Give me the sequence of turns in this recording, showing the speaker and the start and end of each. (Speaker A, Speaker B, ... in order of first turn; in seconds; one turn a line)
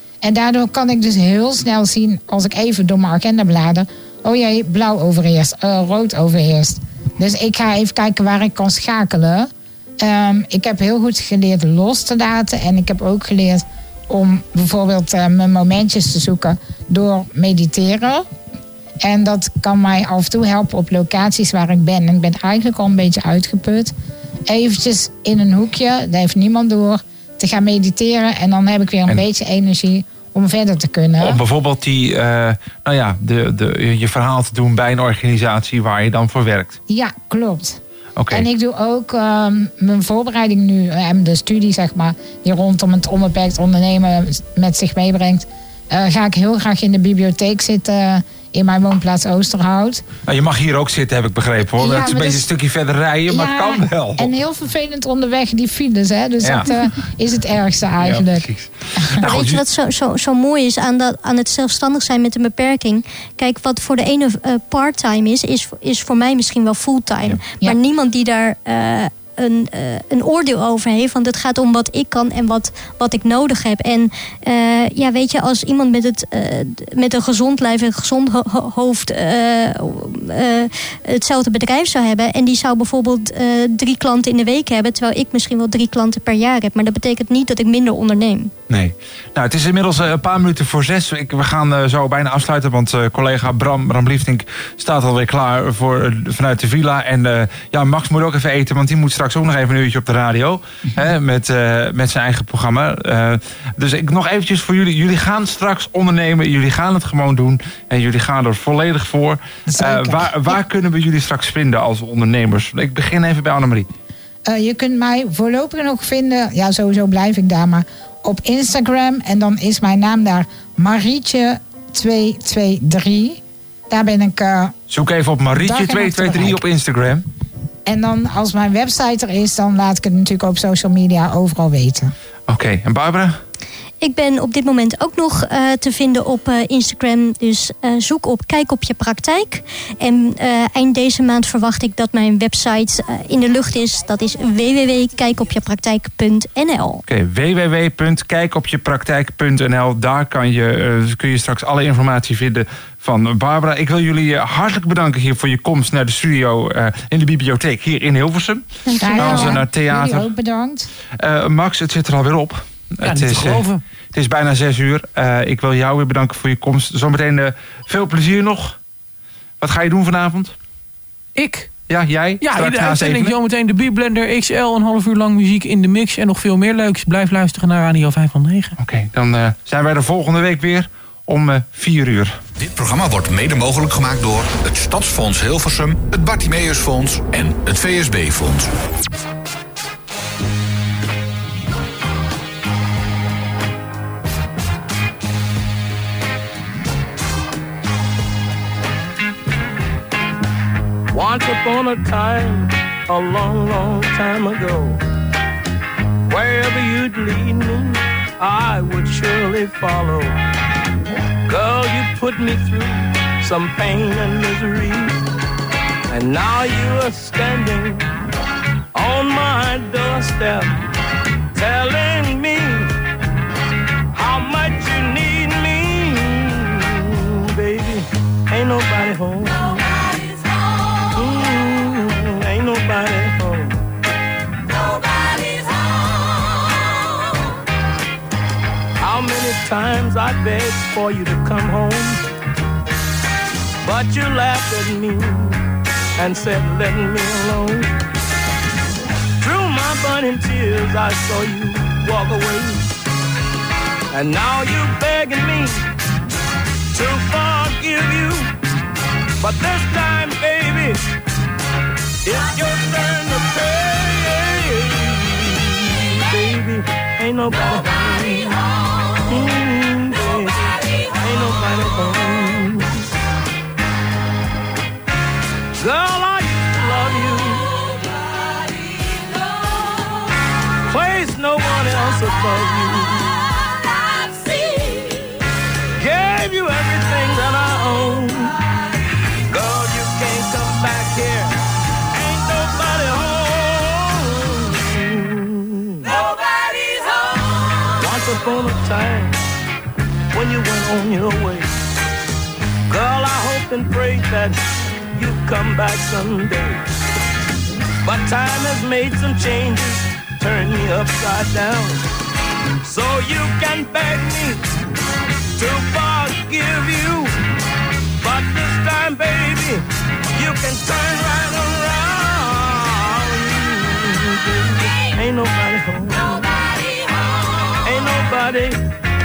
Speaker A: 0.2-18.2
Speaker A: 19.0-23.9
Speaker A: 24.5-31.4
Speaker B: 31.2-36.8
Speaker A: 36.9-37.8
Speaker B: 38.2-38.5
Speaker A: 38.3-50.0
Speaker B: 50.3-54.3
Speaker A: 51.8-52.5
Speaker A: 53.3-58.5
Speaker B: 56.4-56.7
Speaker B: 58.0-59.6
Speaker C: 59.3-88.5
Speaker B: 67.2-67.6
Speaker B: 88.7-113.9
Speaker A: 109.7-110.6
Speaker A: 114.5-124.7
Speaker B: 124.9-127.2
Speaker A: 125.5-126.6
Speaker A: 127.8-132.1
Speaker B: 132.5-133.4
Speaker C: 134.0-147.0
Speaker B: 147.1-160.3
Speaker A: 158.9-160.9
Speaker B: 161.2-168.8
Speaker D: 163.0-163.8
Speaker B: 169.6-170.5
Speaker D: 171.3-171.7
Speaker B: 171.9-173.3
Speaker D: 172.4-178.8
Speaker B: 178.8-182.4
Speaker E: 182.5-188.7
Speaker F: 201.1-205.0
Speaker F: 206.3-210.4
Speaker F: 211.5-215.2
Speaker F: 216.1-218.0
Speaker F: 218.9-220.8
Speaker F: 221.5-222.9
Speaker F: 224.1-230.0
Speaker F: 231.1-233.8
Speaker F: 239.0-242.2
Speaker F: 243.8-245.6
Speaker F: 246.2-247.9
Speaker F: 249.4-252.8
Speaker F: 254.1-255.8
Speaker F: 256.9-258.5
Speaker F: 259.4-261.0
Speaker F: 262.2-268.6
Speaker F: 269.3-273.0
Speaker F: 275.8-277.7
Speaker F: 280.9-283.4
Speaker F: 284.5-285.1
Speaker F: 286.0-288.6
Speaker F: 289.5-291.6
Speaker F: 292.1-297.0
Speaker F: 298.0-299.4
Speaker F: 300.3-301.7
Speaker F: 302.9-304.6
Speaker F: 305.1-306.8
Speaker F: 308.0-312.0
Speaker F: 312.8-314.6
Speaker F: 315.6-317.3
Speaker F: 318.2-326.5
Speaker F: 327.8-328.8